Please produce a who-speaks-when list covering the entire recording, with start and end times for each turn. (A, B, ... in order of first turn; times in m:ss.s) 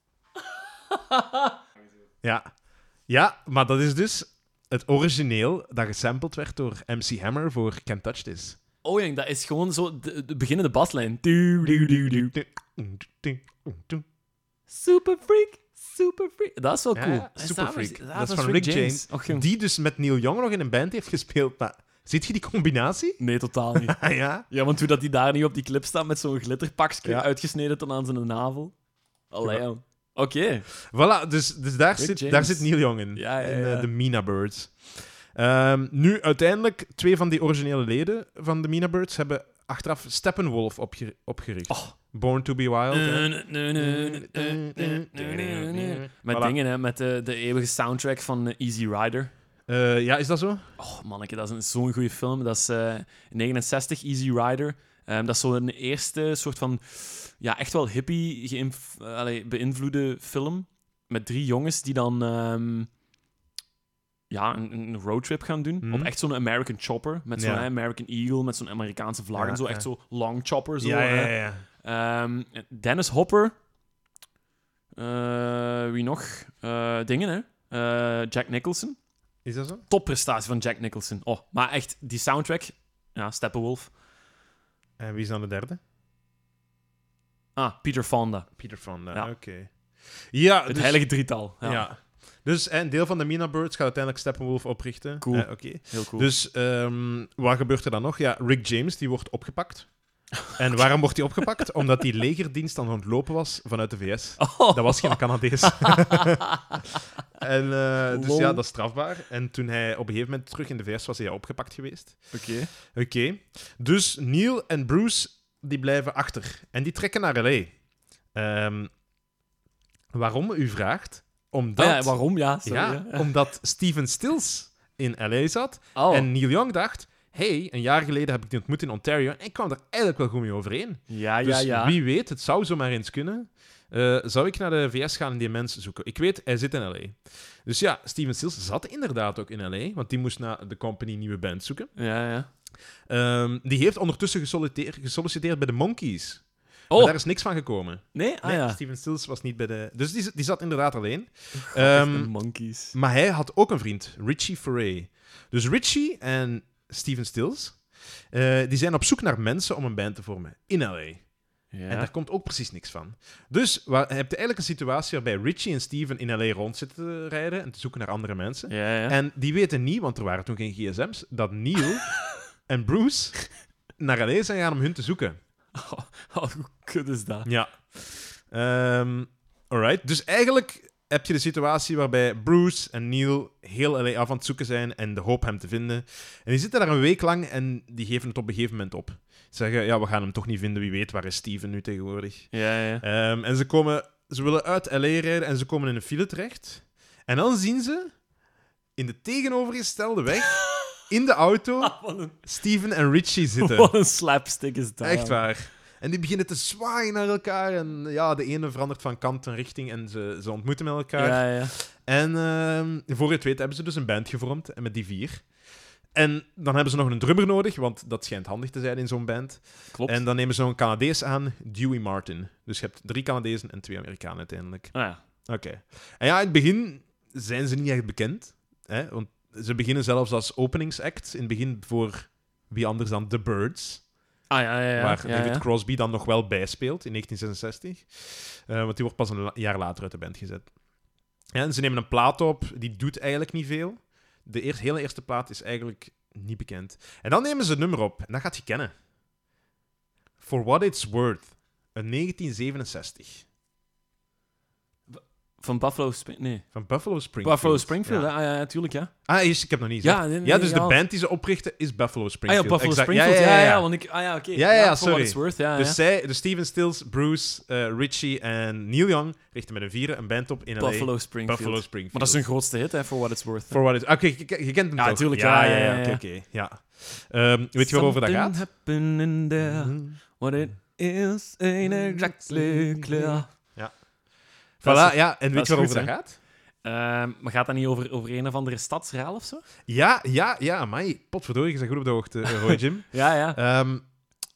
0:00.9-0:01.5 A
0:03.1-0:08.6 B
0:08.8-0:12.3 A
0:11.6-0:14.0 B
0:14.7-0:19.5 A
0:17.0-0:23.2 B
0:23.2-0:28.8 A
0:23.7-0:24.5 B
0:29.3-0:30.7 A
0:30.9-0:46.6 B
0:32.0-0:33.9 A
0:42.9-0:49.3 A
0:49.7-0:50.7 B
0:50.8-1:02.9 A
1:04.3-1:13.6 A
1:05.8-1:06.1 B
1:07.4-1:07.7 B
1:09.4-1:09.9 B
1:10.8-1:11.7 B
1:15.0-1:19.0 A
1:19.4-1:19.9 B
1:19.9-1:23.9 A
1:25.0-1:25.8 B
1:27.6-1:28.5 A
1:28.6-1:31.0 B
1:30.7-1:31.9 A
1:31.6-1:39.9 B
1:35.2-1:36.3 A
1:40.6-1:46.4 B
1:44.4-1:46.8 A
1:47.4-1:52.3 B
1:48.1-1:48.6 A
1:52.3-1:52.7 A
1:52.9-1:57.7 B
1:58.3-1:58.9 B
2:00.1-2:21.9 B
2:01.8-2:03.3 A
2:06.0-2:06.3 A
2:11.1-2:12.0 A
2:22.0-2:22.5 A
2:23.1-2:32.3 B
2:26.9-2:27.2 A
2:28.1-2:28.8 A
2:31.6-2:33.0 A
2:32.9-2:41.3 B
2:41.7-2:42.1 A
2:41.9-2:55.4 B
2:48.7-2:49.2 A
2:55.8-2:57.5 A
2:57.4-3:18.1 B
3:12.5-3:13.0 A
3:19.0-3:23.9 B
3:21.8-3:22.4 A
3:23.6-3:25.4 A
3:25.0-3:35.5 B
3:31.2-3:31.7 A
3:36.1-3:45.0 B
3:39.9-3:40.2 A
3:44.9-3:45.2 A
3:45.5-3:54.0 B
3:54.5-3:55.6 A
3:55.0-4:00.7 B
4:01.5-4:08.9 B
4:10.4-4:13.5 B
4:15.1-4:16.6 A
4:16.7-4:18.3 B
4:17.4-4:19.1 A
4:19.3-4:23.9 B
4:20.0-4:21.0 A
4:22.5-4:26.0 A
4:24.5-4:32.5 B
4:30.8-4:33.8 A
4:33.7-4:38.6 B
4:35.0-4:36.2 A
4:37.8-4:43.5 A
4:39.6-4:40.2 B
4:41.8-4:44.0 B
4:44.8-4:46.4 B
4:44.8-4:46.1 A
4:46.8-4:49.6 A
4:49.9-4:54.1 B
4:52.5-4:53.6 A